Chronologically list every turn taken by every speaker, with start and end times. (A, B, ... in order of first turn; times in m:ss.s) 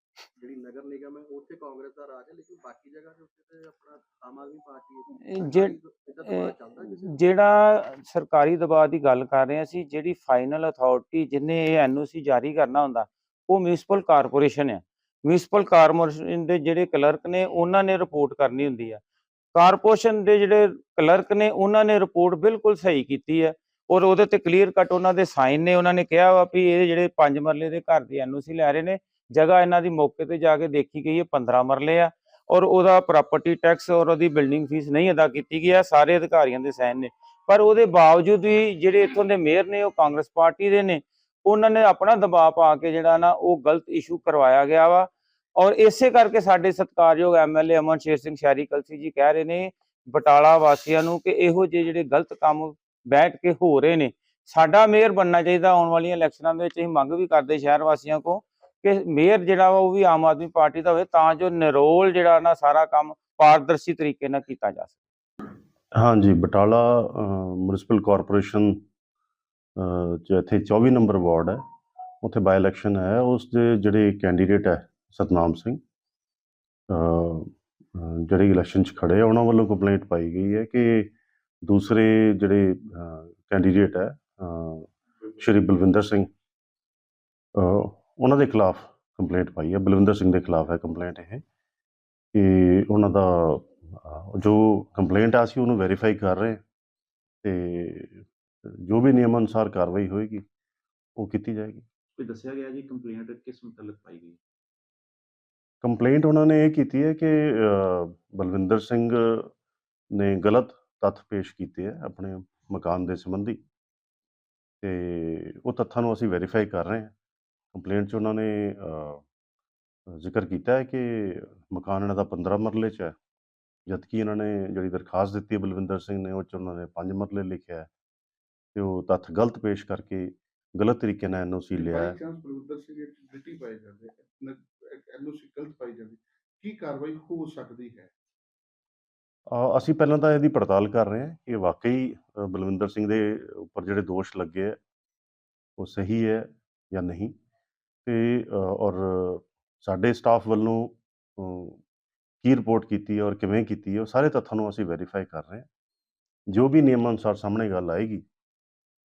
0:00.4-0:07.2 A
0:05.2-0:19.0 B
0:19.5-1:05.0 B
1:06.0-1:08.8 C
1:09.8-1:11.6 C
1:12.2-1:15.8 C
1:16.9-1:26.3 C
1:27.6-1:31.4 C
1:32.3-1:36.6 C
1:37.4-1:38.3 C
1:38.9-1:40.4 C
1:41.2-1:41.8 C
1:42.2-1:44.4 D
1:45.8-1:49.5 C
1:50.1-1:53.6 C
1:54.8-1:57.1 C
1:57.7-1:59.3 C
2:00.1-2:03.2 C
2:03.9-2:07.9 C
2:08.8-2:12.2 C
2:11.8-2:18.1 E
2:19.5-2:24.8 C
2:25.8-2:27.3 C
2:28.0-2:31.8 C
2:32.4-2:35.7 C
2:36.5-2:38.2 C